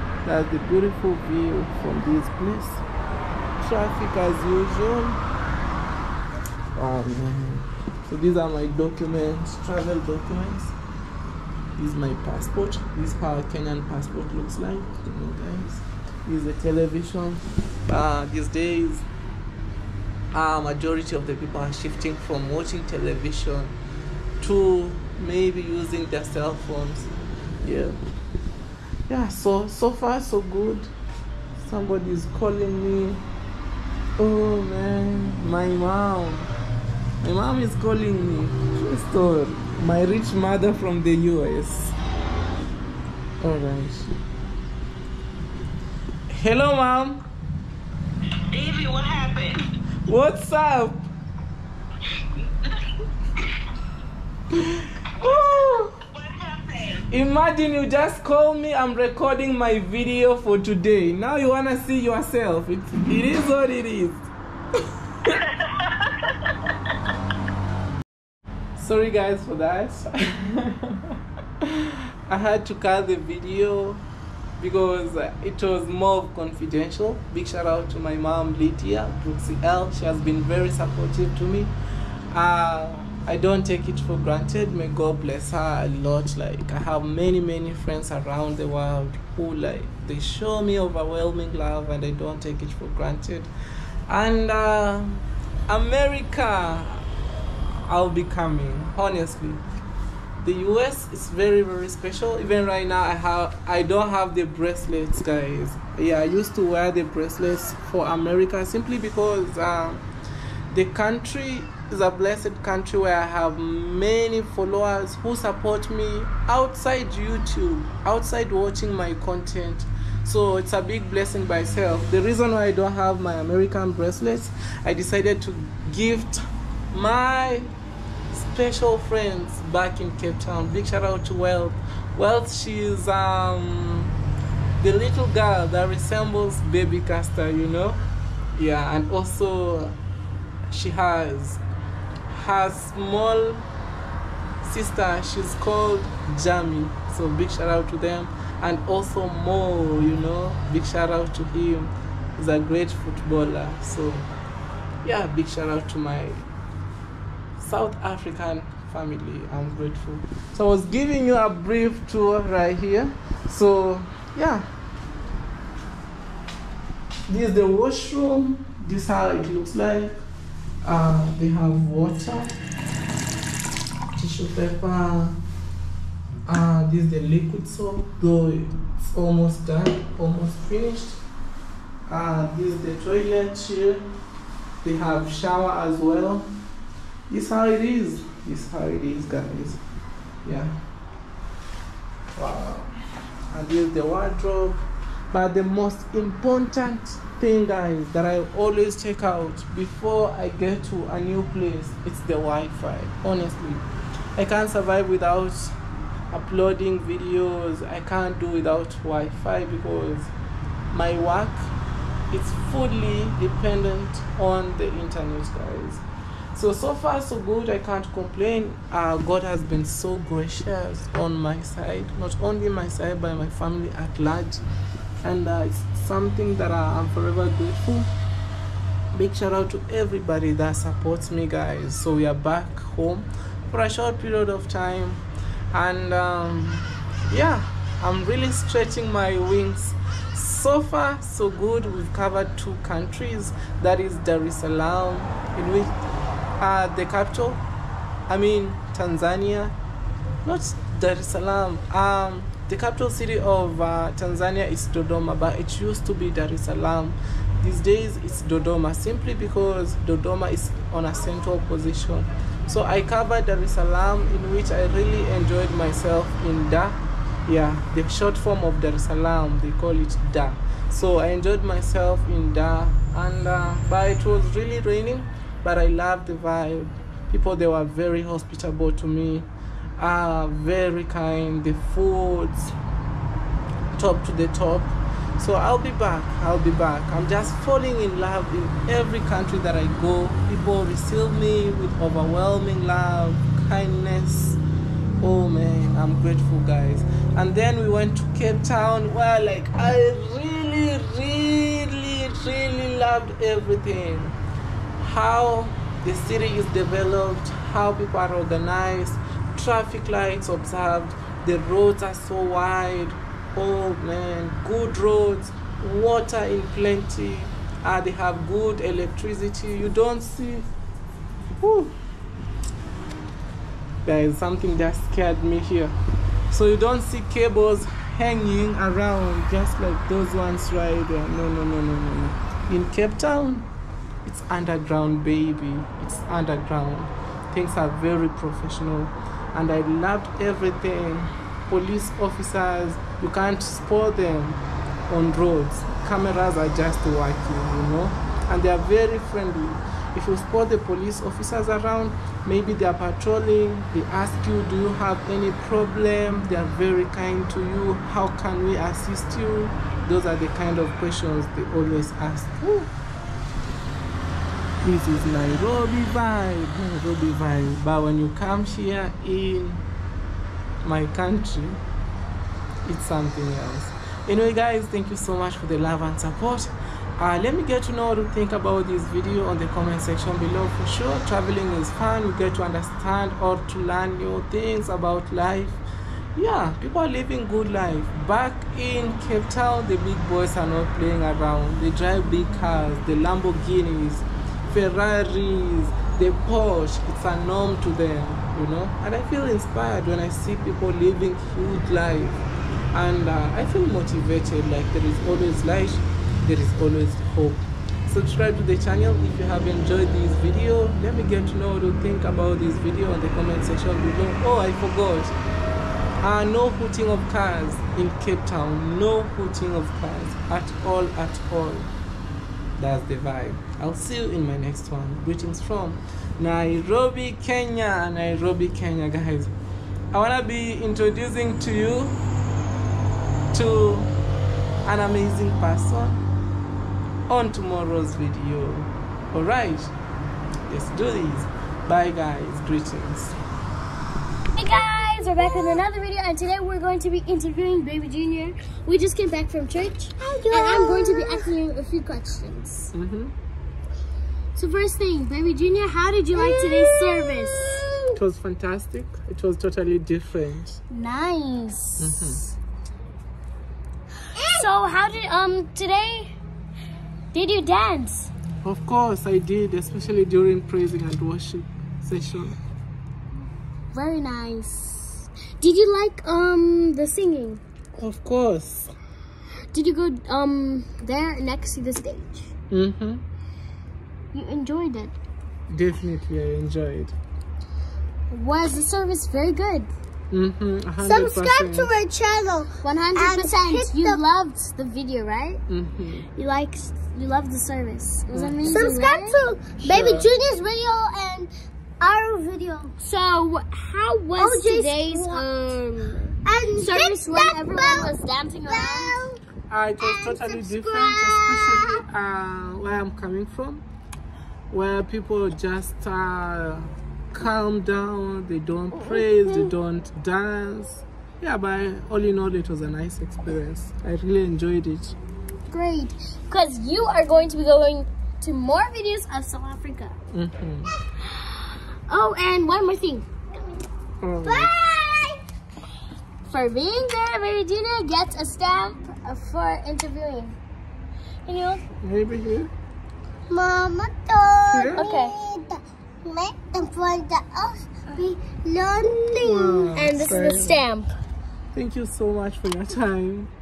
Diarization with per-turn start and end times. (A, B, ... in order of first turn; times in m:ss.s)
0:00.2-0:02.8 A
0:03.6-0:05.2 A
0:06.7-0:10.7 A
0:11.8-0:19.0 A
0:20.3-0:23.7 A
0:24.4-0:27.1 A
0:27.6-0:28.0 A
0:29.1-0:30.9 A
0:31.6-0:33.2 A
0:34.2-0:36.5 A
0:37.2-0:42.0 A
0:43.4-0:44.1 A
0:46.3-0:47.2 A
0:48.5-0:49.6 B
0:50.0-0:51.1 A
0:54.6-0:55.9 A
0:55.2-0:57.0 B
0:57.1-1:04.3 A
1:08.8-1:11.0 A
1:11.6-1:14.0 A
1:14.6-1:21.7 A
1:22.3-1:33.5 A
1:34.1-1:37.0 A
1:37.8-1:39.6 A
1:40.4-1:50.0 A
1:50.7-2:07.7 A
2:08.3-2:14.1 A
2:14.8-2:18.0 A
2:18.6-2:19.9 A
2:20.7-2:21.6 A
2:22.3-2:23.6 A
2:24.6-2:34.3 A
2:35.0-2:36.5 A
2:37.6-2:44.6 A
2:47.3-2:50.2 A
2:50.8-2:52.5 A
2:54.1-2:55.4 A
2:56.4-3:01.2 A
3:02.1-3:04.0 A
3:04.8-3:06.5 A
3:07.3-3:09.8 A
3:10.4-3:10.7 A
3:12.3-3:12.9 A
3:13.5-3:14.8 A
3:15.3-3:23.8 A
3:24.4-3:25.7 A
3:26.3-3:30.3 A
3:30.9-3:31.7 A
3:32.3-3:44.6 A
3:45.2-3:48.1 A
3:49.1-4:06.0 A
4:06.6-4:07.6 A
4:08.3-4:09.7 A
4:10.4-4:42.7 A
4:44.0-4:54.6 A
4:55.2-5:04.4 A
5:05.0-5:20.7 A
5:21.6-5:21.9 A
5:24.0-5:25.9 A
5:26.5-5:33.7 A
5:34.2-6:02.9 A
6:04.8-6:09.8 A
6:10.8-6:11.8 A
6:12.8-6:25.8 A
6:26.4-6:55.3 A
6:56.2-7:01.9 A
7:02.8-7:09.5 A
7:10.1-7:12.2 A
7:13.5-7:14.1 A
7:14.8-7:16.2 A
7:17.3-7:19.9 A
7:20.7-7:23.4 A
7:24.6-7:32.9 C
7:25.4-7:25.8 D
7:30.2-7:31.5 D
7:32.9-7:33.3 A
7:34.6-7:37.8 C
7:36.3-7:37.9 D
7:38.2-7:40.8 A
7:40.9-7:42.4 C
7:42.0-7:42.5 A
7:44.4-7:44.7 D
7:44.5-7:46.3 C
7:47.3-7:48.3 C
7:48.6-7:52.6 A
7:53.9-7:57.6 C
7:58.0-7:58.9 A
7:59.7-8:02.5 C
8:02.7-8:03.2 A
8:04.3-8:05.1 C
8:05.7-8:07.1 A
8:08.3-8:09.9 C
8:10.3-8:12.0 A
8:11.0-8:14.2 D
8:12.8-8:15.6 C
8:15.7-8:16.3 A
8:16.4-8:19.4 C
8:18.3-8:18.7 A
8:18.6-8:21.5 D
8:19.8-8:20.3 A
8:22.0-8:22.9 D
8:23.0-8:29.2 C
8:24.4-8:25.5 D
8:26.4-8:28.1 D
8:28.7-8:29.4 D
8:29.7-8:33.8 A
8:30.0-8:31.9 D
8:34.7-8:45.2 A
8:45.7-8:50.1 C
8:50.3-8:50.9 A
8:52.1-8:53.3 C
8:54.2-8:54.7 A
8:55.0-8:55.3 D
8:56.5-9:00.6 C
9:01.5-9:01.8 C
9:02.0-9:02.7 A
9:03.5-9:10.5 D
9:04.6-9:05.1 A
9:04.9-9:05.3 C
9:09.4-9:10.8 A
9:09.9-9:11.0 C
9:11.7-9:13.5 A